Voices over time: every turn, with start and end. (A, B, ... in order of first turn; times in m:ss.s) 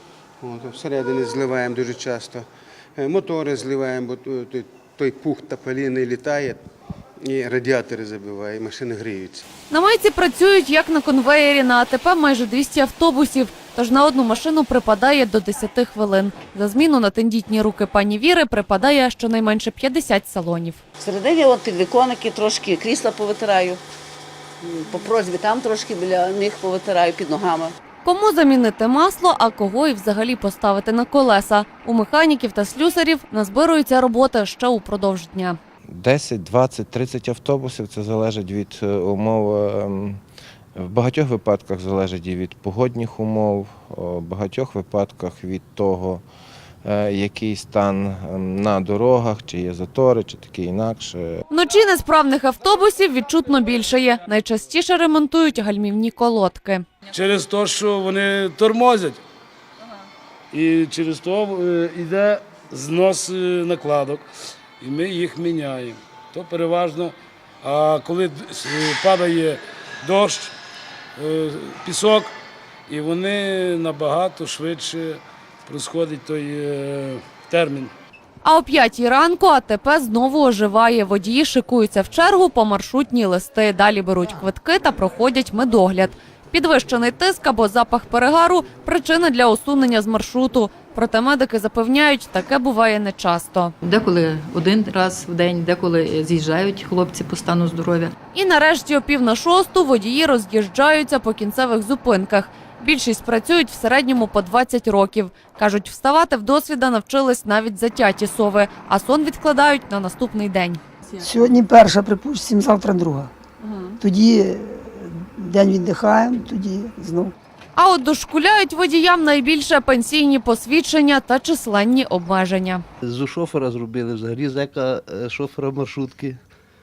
0:00.4-0:06.6 A
0:07.2-0:09.4 A
0:09.7-0:20.8 B
0:21.0-0:23.8 C
0:24.6-0:27.8 C
0:28.0-0:35.6 B
0:35.9-0:40.2 D
0:40.8-0:46.2 D
0:46.8-0:51.5 D
0:51.5-0:56.8 B
0:57.1-0:59.2 E
1:00.5-1:04.2 E
1:04.8-1:10.5 E
1:11.2-1:12.3 E
1:12.9-1:17.9 E
1:18.4-1:33.7 B
1:33.8-1:38.1 F
1:38.3-1:50.8 B
1:51.2-1:53.3 G
1:54.0-1:57.3 G
1:57.8-2:02.8 B
2:03.0-2:06.4 H